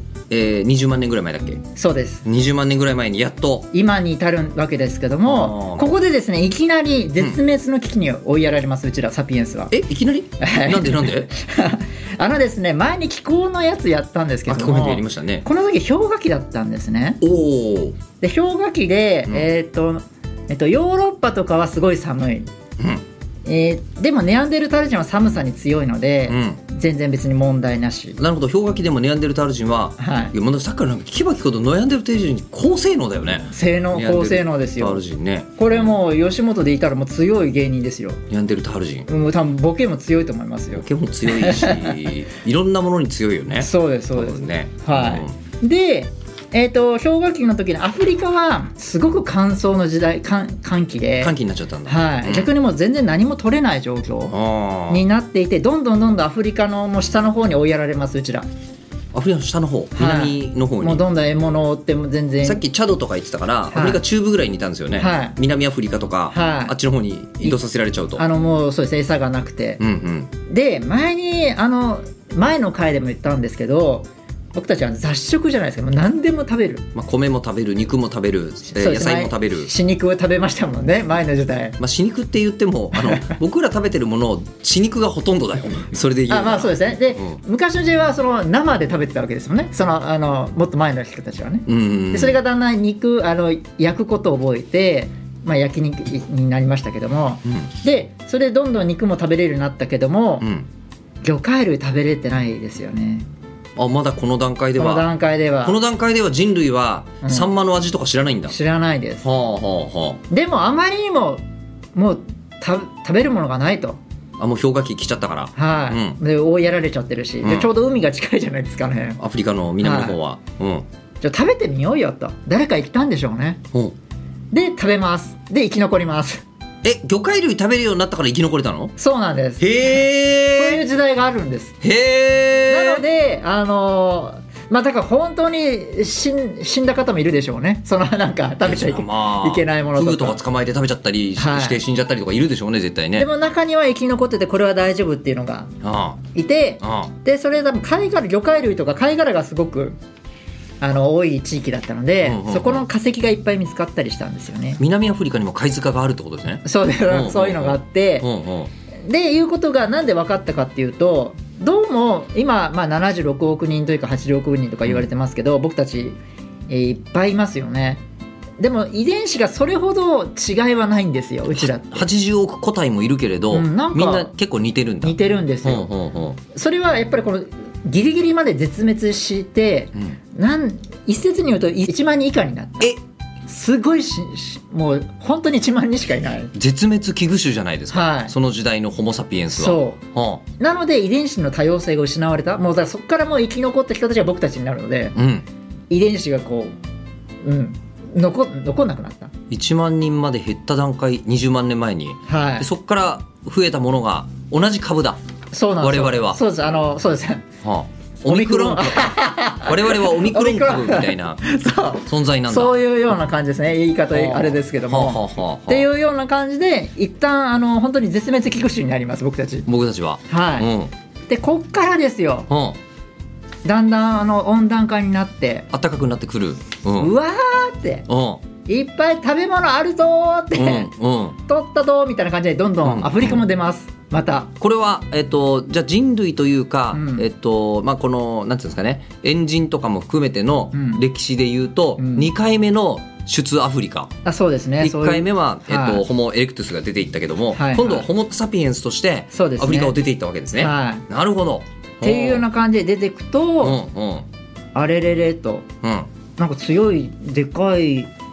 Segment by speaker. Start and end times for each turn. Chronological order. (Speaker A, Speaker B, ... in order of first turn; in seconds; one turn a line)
Speaker A: 0.3-1.6
Speaker B: 1.8-2.2
Speaker A: 2.2-3.7
Speaker B: 3.7-9.7
Speaker A: 5.2-5.9
Speaker A: 9.7-11.3
Speaker B: 10.4-17.2
Speaker A: 14.5-15.4
Speaker A: 17.2-18.0
Speaker B: 18.2-22.5
Speaker A: 22.8-23.0
Speaker B: 23.4-28.2
Speaker A: 26.3-26.6
Speaker A: 28.2-36.0
Speaker B: 30.0-30.3
Speaker B: 33.5-35.0
Speaker B: 35.6-38.2
Speaker A: 38.3-39.1
Speaker B: 39.1-42.0
Speaker A: 40.7-45.3
Speaker B: 43.6-51.3
Speaker A: 51.2-52.5
Speaker B: 51.9-54.3
Speaker A: 54.3-55.0
Speaker B: 54.9-58.5
Speaker A: 59.1-61.0
Speaker B: 60.0-62.6
Speaker A: 62.4-68.2
Speaker B: 63.7-64.0
Speaker B: 65.0-65.3
Speaker B: 66.3-66.7
Speaker B: 68.2-69.8
Speaker A: 69.8-70.3
Speaker B: 70.5-76.9
Speaker A: 76.9-79.7
Speaker B: 78.7-81.8
Speaker A: 81.8-87.4
Speaker B: 83.0-83.3
Speaker B: 86.3-100.5
Speaker A: 91.7-92.4
Speaker A: 100.4-100.7
Speaker B: 101.2-103.3
Speaker A: 103.8-105.1
Speaker B: 104.8-105.8
Speaker A: 105.6-108.5
Speaker B: 107.2-107.5
Speaker B: 108.5-109.2
Speaker A: 109.2-110.2
Speaker B: 110.3-111.4
Speaker B: 111.9-114.0
Speaker A: 114.4-116.2
Speaker B: 115.5-119.2
Speaker A: 117.4-117.7
Speaker A: 119.2-120.8
Speaker B: 119.8-120.2
Speaker B: 121.2-123.6
Speaker B: 124.5-126.4
Speaker A: 126.8-128.9
Speaker B: 129.0-130.0
Speaker A: 129.6-130.8
Speaker B: 130.5-131.8
Speaker A: 131.8-133.0
Speaker B: 132.7-140.4
Speaker A: 138.6-143.3
Speaker B: 141.3-141.8
Speaker B: 143.2-145.7
Speaker A: 145.8-146.2
Speaker B: 146.3-150.0
Speaker A: 146.8-147.1
Speaker B: 150.8-154.8
Speaker A: 152.2-152.9
Speaker A: 154.8-158.7
Speaker B: 156.6-158.3
Speaker B: 159.0-168.0
Speaker B: 168.6-172.1
Speaker A: 171.5-176.4
Speaker B: 173.5-174.3
Speaker B: 175.0-175.9
Speaker B: 176.5-182.9
Speaker B: 183.5-186.5
Speaker A: 186.5-190.4
Speaker B: 187.9-188.3
Speaker B: 189.5-190.0
Speaker B: 190.6-195.1
Speaker A: 195.2-195.4
Speaker B: 195.9-196.8
Speaker B: 197.4-199.3
Speaker A: 199.5-205.2
Speaker B: 202.3-202.7
Speaker B: 205.5-207.4
Speaker A: 205.8-206.4
Speaker A: 207.6-211.4
Speaker B: 208.3-219.7
Speaker A: 212.0-212.7
Speaker A: 214.1-215.9
Speaker A: 219.7-220.9
Speaker B: 220.3-220.7
Speaker B: 221.3-222.5
Speaker A: 222.5-222.8
Speaker B: 223.6-225.7
Speaker A: 225.7-227.1
Speaker B: 227.0-228.1
Speaker A: 228.1-228.4
Speaker B: 228.6-230.9
Speaker A: 230.5-231.4
Speaker B: 231.4-234.5
Speaker A: 232.8-233.4
Speaker A: 234.6-244.1
Speaker B: 236.9-237.3
Speaker B: 240.7-241.0
Speaker B: 242.0-242.3
Speaker B: 244.2-246.0
Speaker A: 244.8-252.4
Speaker B: 247.5-248.1
Speaker B: 249.3-249.9
Speaker B: 250.5-251.1
Speaker B: 252.0-253.8
Speaker A: 253.6-254.3
Speaker B: 254.7-255.7
Speaker A: 255.8-256.1
Speaker B: 256.4-258.1